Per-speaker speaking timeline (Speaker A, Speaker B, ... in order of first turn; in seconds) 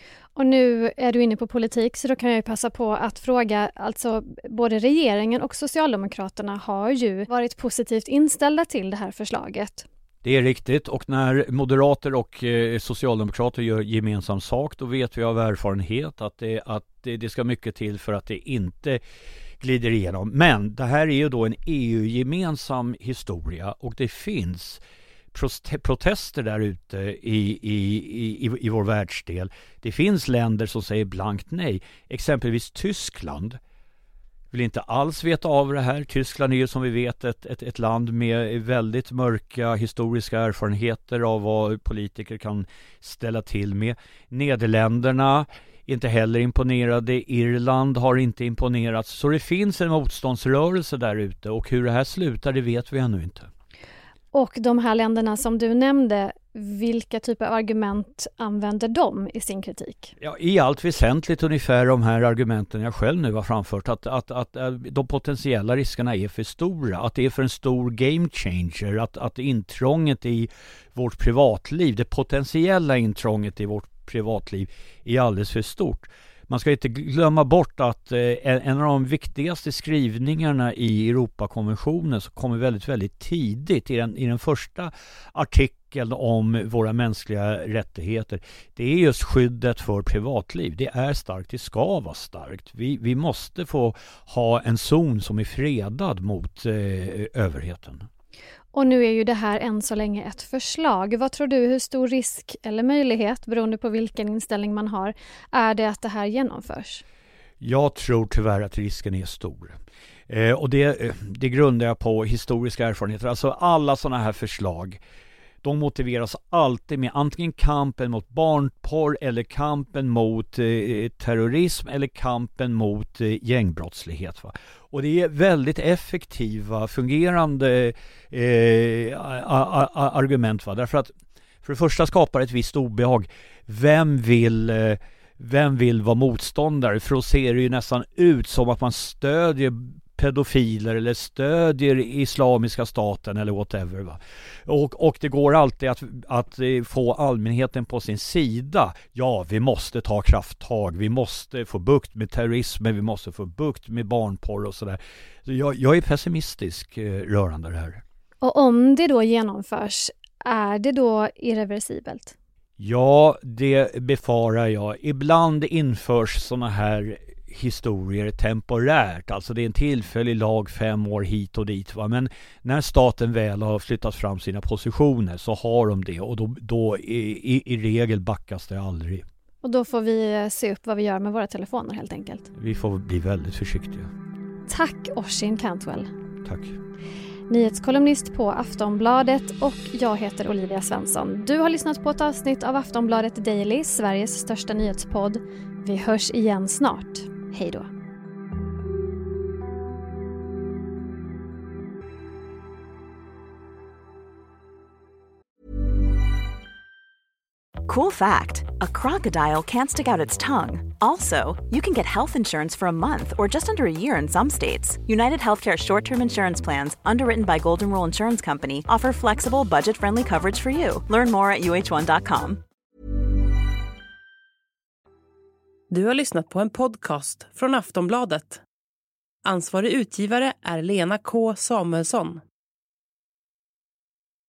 Speaker A: 0.3-9.9, 54.3-60.1, 98.7-107.0, 158.4-162.3, 179.6-182.5, 184.7-186.1, 187.5-197.9
Speaker B: 10.2-19.0, 19.6-24.8, 25.3-33.6, 34.5-53.5, 60.2-98.1, 107.6-109.8, 110.3-115.0, 115.6-131.1, 131.6-158.0, 162.8-179.2, 182.6-184.1, 186.4-186.8
Speaker C: 207.8-222.6
Speaker D: 225.9-228.6, 229.4-232.4